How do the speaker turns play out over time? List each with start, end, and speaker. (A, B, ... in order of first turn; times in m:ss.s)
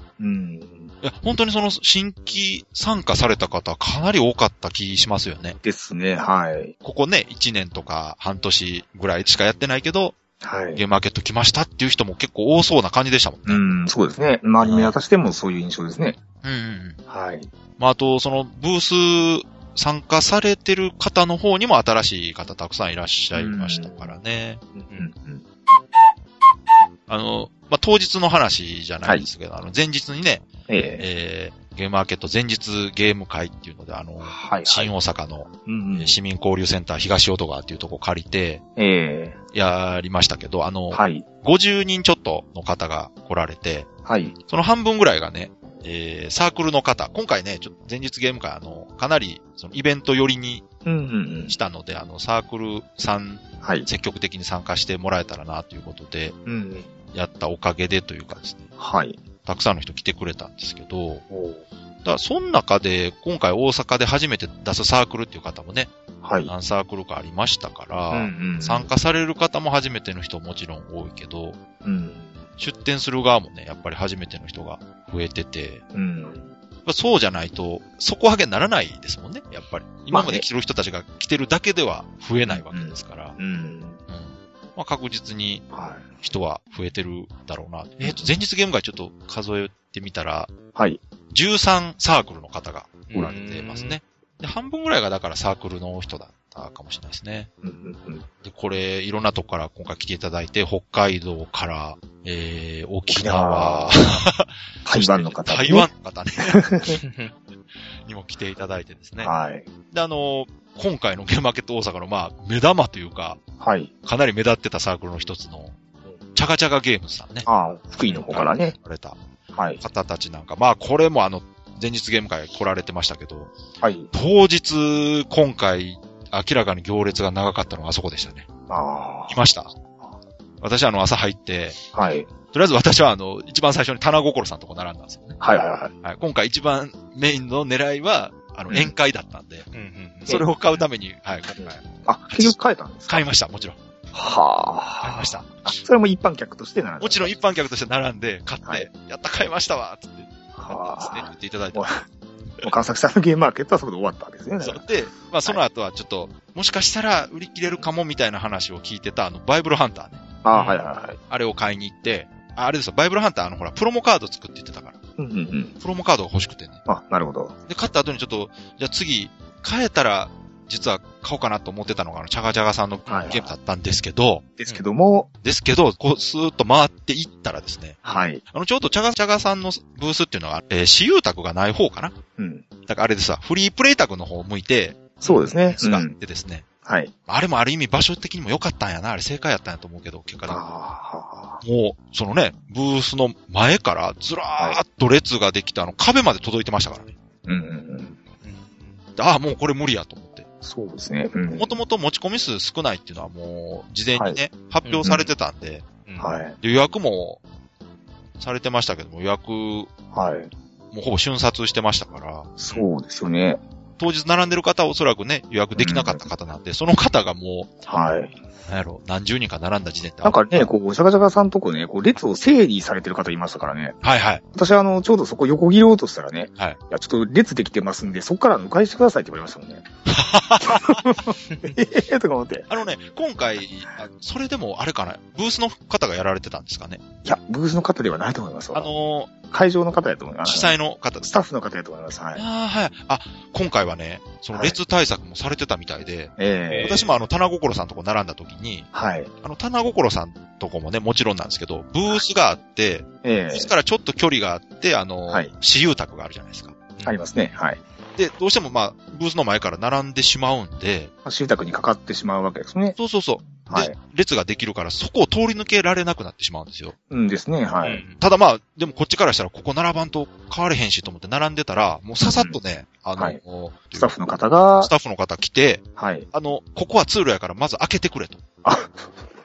0:00.2-0:00.9 A
0:01.0-0:05.6 B
0:05.6-0:06.7 A
0:06.8-0:10.2 B
0:10.4-0:10.8 A
0:10.7-0:13.6 B
0:13.4-0:16.2 A
0:14.6-0:15.0 B
0:16.4-0:17.0 B
0:17.1-0:17.5 A
0:17.8-0:24.6 B
0:23.3-0:24.1 A
0:24.8-0:25.4 A
0:27.1-0:30.5 B
0:30.7-0:31.0 A
0:31.0-0:38.6 B
0:34.2-0:34.9 A
0:35.6-0:36.2 A
0:38.8-0:39.4 A
0:39.5-0:43.9 B
0:40.9-0:41.2 A
0:44.0-0:44.3 A
0:44.4-0:50.6 B
0:50.8-0:51.5 A
0:51.5-0:56.4 B
0:53.6-0:53.9 A
0:56.4-0:56.9 A
0:57.1-0:58.7 B
0:58.8-0:59.2 A
0:59.4-1:01.2 B
1:01.3-1:01.6 A
1:02.0-1:05.9 B
1:06.2-1:06.5 A
1:06.4-1:11.6 B
1:08.1-1:08.9 A
1:11.8-1:12.4 A
1:12.6-1:15.8 B
1:15.9-1:16.5 A
1:16.8-1:23.4 B
1:20.1-1:20.4 A
1:22.5-1:24.0 A
1:24.1-1:25.6 B
1:25.7-1:26.1 A
1:26.2-1:30.5 B
1:28.0-1:28.3 A
1:30.7-1:31.0 A
1:31.3-1:37.5 B
1:33.1-1:34.0 C
1:37.6-1:38.2 A
1:38.4-1:46.7 B
1:43.1-1:44.1 A
1:44.8-1:45.9 A
1:46.4-1:47.0 A
1:47.0-1:47.3 C
1:48.0-1:49.3 B
1:49.2-1:49.6 A
1:49.9-1:53.4 B
1:53.6-1:53.9 A
1:54.0-1:55.8 B
1:56.3-1:57.5 B
1:57.4-1:58.7 A
1:58.0-1:59.2 B
1:59.5-1:59.8 A
1:59.8-2:03.5 B
2:03.8-2:04.1 A
2:04.1-2:08.4 B
2:08.7-2:09.4 A
2:09.3-2:09.7 B
2:10.6-2:11.8 B
2:11.9-2:12.3 A
2:12.5-2:15.4 B
2:15.4-2:15.9 A
2:16.0-2:19.6 B
2:19.7-2:20.4 C
2:20.3-2:22.5 B
2:21.6-2:23.2 A
2:23.1-2:23.8 B
2:24.1-2:27.3 A
2:25.0-2:25.7 B
2:27.0-2:32.0 B
2:30.6-2:32.0 A
2:32.6-2:34.8 A
2:34.6-2:40.2 B
2:40.4-2:41.2 A
2:40.5-2:40.8 C
2:41.3-2:45.0 B
2:45.2-2:45.8 A
2:45.8-2:46.8 B
2:46.8-2:47.5 A
2:47.7-2:54.5 B
2:53.1-2:53.5 A
2:54.6-2:55.3 A
2:55.4-2:58.0 B
2:58.0-2:58.4 A
2:58.5-3:02.1 B
3:02.4-3:02.6 A
3:02.8-3:06.6 B
3:05.2-3:06.1 A
3:06.8-3:07.1 A
3:07.3-3:10.6 B
3:10.5-3:11.6 A
3:11.6-3:17.1 B
3:17.4-3:18.2 A
3:18.4-3:19.0 C
3:19.2-3:20.4 B
3:20.6-3:21.8 A
3:21.5-3:25.8 B
3:24.1-3:24.4 A
3:24.8-3:25.1 C
3:25.0-3:25.3 A
3:26.0-3:26.3 C
3:26.2-3:26.6 A
3:26.6-3:27.4 B
3:28.4-3:29.9 B
3:30.1-3:30.5 A
3:30.9-3:32.5 B
3:32.6-3:33.6 A
3:34.0-3:37.7 B
3:35.8-3:36.3 A
3:37.8-3:38.3 A
3:38.7-3:40.7 B
3:40.2-3:44.0 A
3:44.0-3:44.4 B
3:44.5-3:49.8 A
3:50.1-3:51.1 B
3:50.6-3:52.7 A
3:52.7-3:57.0 B
3:57.2-3:58.9 A
3:58.7-3:59.3 B
3:59.5-4:02.4 A
4:00.4-4:01.3 B
4:02.3-4:08.9 B
4:04.5-4:04.8 A
4:06.4-4:07.0 A
4:06.7-4:07.1 C
4:08.9-4:09.3 A
4:09.4-4:16.9 B
4:13.2-4:13.7 A
4:17.0-4:17.8 A
4:18.2-4:21.1 B
4:21.2-4:23.0 A
4:23.0-4:26.9 B
4:23.6-4:23.9 A
4:27.1-4:28.0 A
4:27.8-4:28.2 C
4:28.2-4:34.1 B
4:32.2-4:32.6 A
4:33.9-4:34.9 A
4:34.8-4:38.4 B
4:36.0-4:36.3 A
4:38.6-4:39.1 A